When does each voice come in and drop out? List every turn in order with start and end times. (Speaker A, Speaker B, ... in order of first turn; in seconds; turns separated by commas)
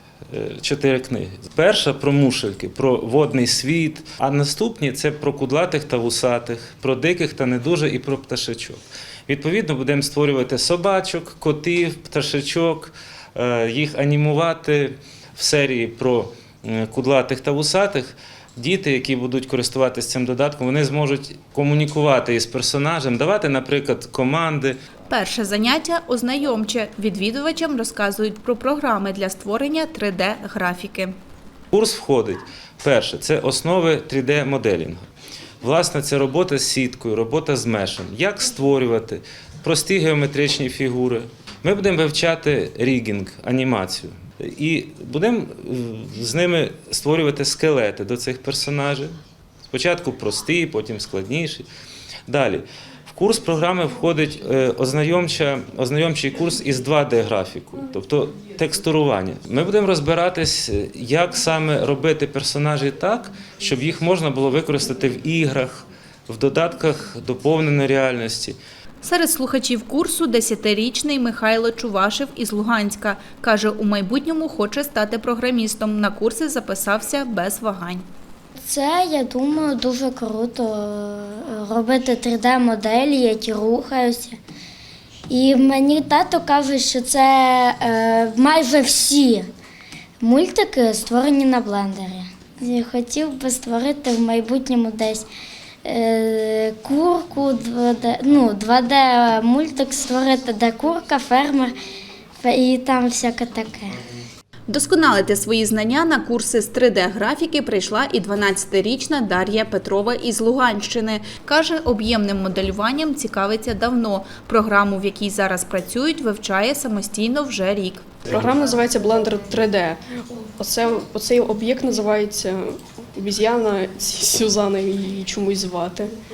Speaker A: 0.3-24.8, Speaker B: 25.1-31.1, Speaker A: 31.7-35.0, Speaker A: 35.6-49.1, Speaker A: 49.7-51.6, Speaker A: 52.3-68.6, Speaker B: 69.0-78.0, Speaker C: 78.7-84.4, Speaker C: 85.3-89.5, Speaker C: 90.2-95.2, Speaker C: 95.8-101.7, Speaker C: 102.4-104.0, Speaker B: 104.7-118.2, Speaker D: 118.3-126.2